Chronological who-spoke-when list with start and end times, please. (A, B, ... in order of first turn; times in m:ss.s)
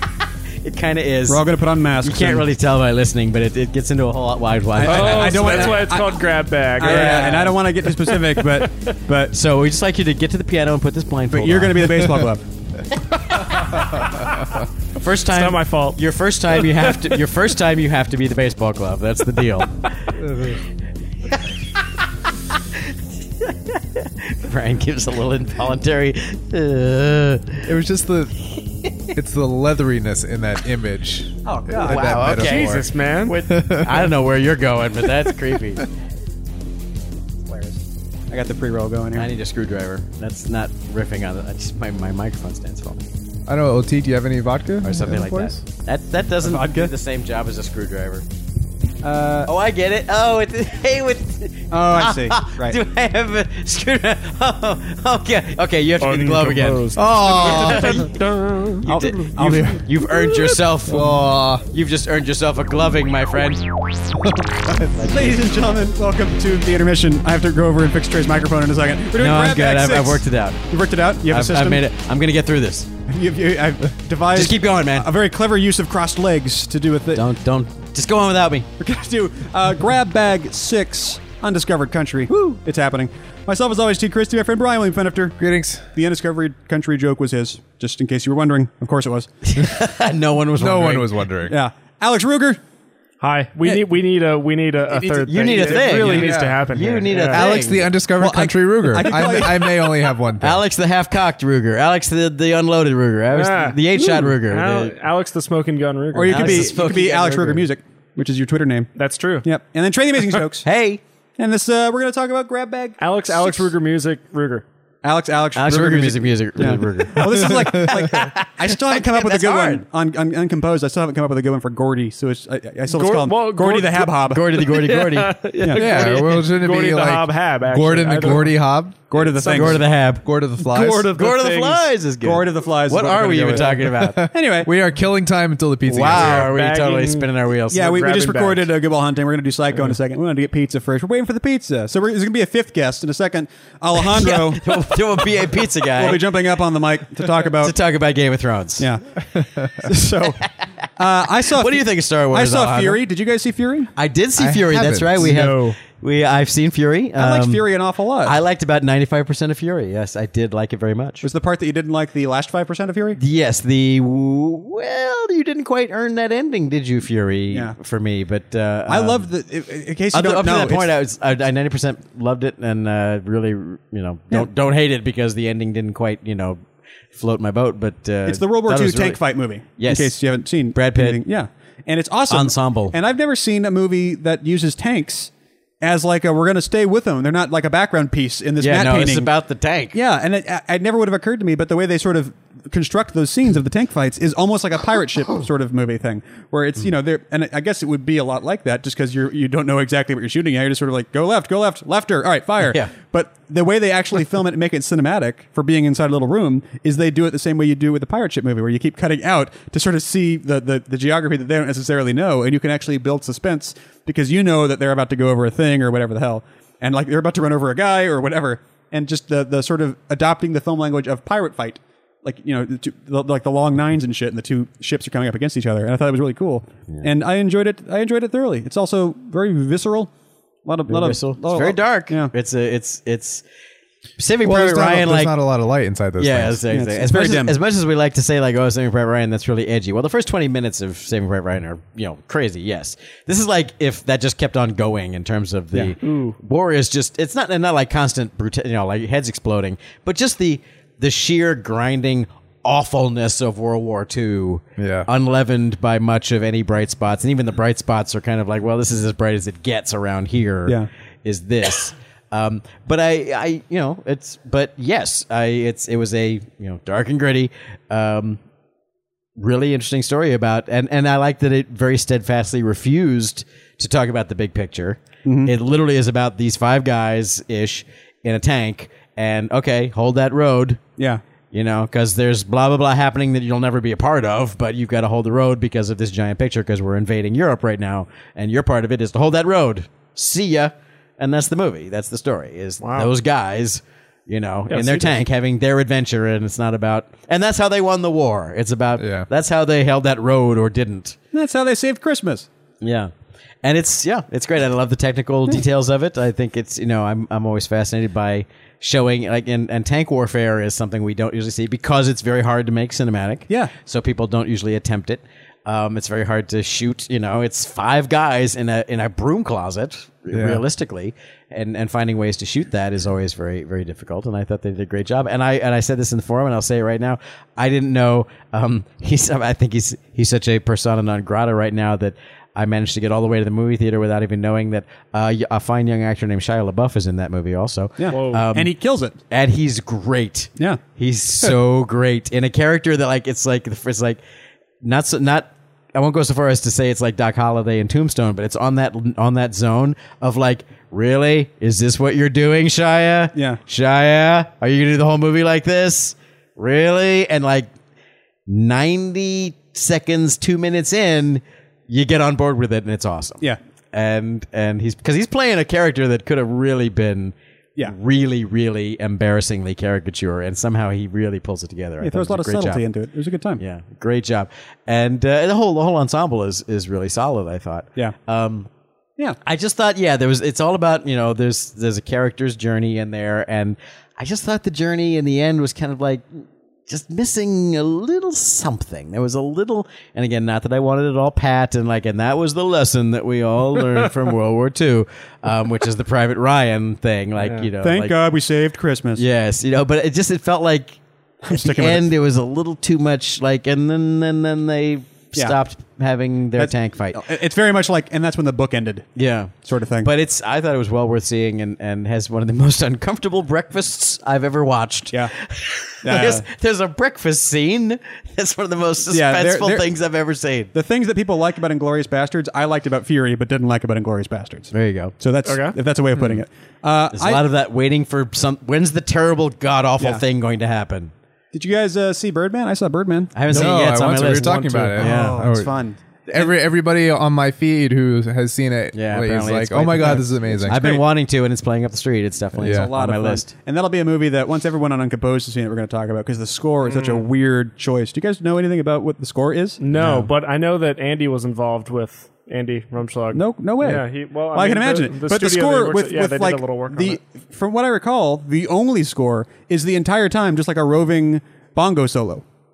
0:00.5-0:05.9 A
0:01.3-0:02.5 B
0:04.8-0:06.2 B
0:04.8-0:09.0 C
0:06.8-0:09.3 B
0:07.0-0:07.3 A
0:09.3-0:12.0 A
0:11.3-0:12.5 B
0:13.2-0:14.3 C
0:13.9-0:14.2 D
0:15.0-0:19.8 A
0:15.3-0:16.0 C
0:16.5-0:17.2 C
0:20.2-0:20.6 D
0:22.6-0:27.7 A
0:27.7-0:28.4 D
0:29.1-0:32.9 D
0:31.4-0:32.2 B
0:31.7-0:35.8 A
0:32.3-0:33.4 C
0:33.4-0:34.1 D
0:37.5-0:39.3 B
0:39.2-0:43.0 A
0:43.5-0:45.6 D
0:44.8-0:48.3 A
0:46.4-0:46.9 B
0:49.0-0:49.5 B
0:49.4-0:58.2 A
0:51.7-0:52.8 B
0:56.0-0:58.8 C
0:57.0-0:58.0 D
0:58.8-1:03.7 A
0:58.9-0:59.9 B
1:00.9-1:01.7 D
1:04.6-1:05.1 D
1:04.9-1:05.4 A
1:05.0-1:11.9 B
1:09.2-1:10.6 A
1:11.3-1:12.9 A
1:13.1-1:17.2 B
1:14.3-1:15.2 A
1:17.1-1:18.7 A
1:18.8-1:25.4 B
1:25.4-1:25.9 D
1:25.9-1:29.3 B
1:29.4-1:31.1 A
1:30.6-1:31.6 D
1:31.5-1:32.6 B
1:33.2-1:37.5 C
1:34.9-1:36.3 B
1:35.3-1:37.9 A
1:36.1-1:36.6 D
1:37.1-1:40.6 D
1:38.2-1:39.8 B
1:40.4-1:45.0 A
1:43.3-1:46.8 C
1:46.1-1:48.9 B
1:46.3-1:47.7 A
1:49.0-1:49.5 C
1:49.4-1:50.7 B
1:50.6-1:51.0 A
1:51.4-1:53.7 B
1:53.0-1:54.6 C
1:55.0-2:04.4 B
1:55.6-1:59.8 A
1:57.3-1:58.2 D
2:02.9-2:08.6 C
2:04.2-2:05.4 A
2:05.7-2:09.0 D
2:09.1-2:09.8 B
2:09.1-2:09.8 C
2:09.5-2:10.3 A
2:10.2-2:11.1 D
2:10.6-2:11.9 C
2:11.1-2:14.3 A
2:12.2-2:14.7 B
2:13.5-2:16.5 D
2:15.9-2:18.0 A
2:16.1-2:18.7 C
2:17.7-2:24.9 B
2:19.7-2:20.0 C
2:24.0-2:26.3 A
2:25.8-2:27.8 B
2:27.4-2:28.9 A
2:28.8-2:29.2 B
2:29.4-2:29.8 D
2:29.7-2:30.4 B
2:31.0-2:33.9 B
2:31.4-2:33.0 A
2:34.0-2:37.7 A
2:34.4-2:35.4 D
2:35.2-2:35.8 C
2:37.2-2:38.4 B
2:38.2-2:41.3 A
2:41.2-2:43.2 B
2:43.2-2:49.3 A
2:47.5-2:47.8 B
2:48.9-2:50.9 B
2:50.1-2:56.6 A
2:57.1-2:59.2 A
2:58.3-3:09.3 B
2:59.8-3:00.2 A
3:00.7-3:01.2 A
3:02.3-3:03.0 A
3:08.6-3:10.0 A
3:09.9-3:50.1 B
3:22.6-3:22.9 A
3:50.6-3:52.3 B
3:50.9-3:53.4 A
3:54.2-3:55.4 A
3:54.4-3:56.6 D
3:56.2-4:28.4 A
3:56.7-3:57.6 B
4:06.0-4:06.4 C
4:14.8-4:15.1 D
4:29.4-4:40.8 A
4:35.2-4:35.5 B
4:41.0-4:41.2 B
4:41.5-5:01.2 A
4:52.8-4:53.1 C
4:54.7-4:55.0 C
4:59.0-4:59.3 D
5:01.3-5:02.5 B
5:02.8-5:03.1 A
5:03.6-5:38.8 A
5:20.3-5:20.6 D
5:38.0-5:39.2 B
5:38.1-5:38.5 C
5:39.3-5:44.2 A
5:44.8-5:57.7 A
5:53.4-5:53.6 B
5:58.5-6:12.8 A
6:12.0-6:13.6 B
6:13.6-6:18.7 A
6:19.4-6:26.3 A
6:26.9-6:38.2 A
6:37.4-6:37.7 C
6:37.8-6:39.2 B
6:39.2-6:47.2 A
6:41.5-6:42.1 B
6:46.6-6:50.1 B
6:49.2-7:00.7 A
6:56.0-6:56.4 B
6:59.1-6:59.9 B
7:00.7-7:07.4 B
7:04.7-7:05.1 A
7:05.4-7:05.8 C
7:07.1-7:11.1 A
7:11.5-7:13.8 B
7:13.3-7:15.5 A
7:13.5-7:15.8 D
7:15.0-7:16.5 B
7:16.3-7:20.8 D
7:18.9-7:23.5 A
7:20.7-7:21.0 B
7:22.6-7:22.9 D
7:22.6-7:29.8 B
7:26.8-7:27.3 C
7:29.8-7:37.2 C
7:29.9-7:30.3 A
7:33.3-7:42.4 B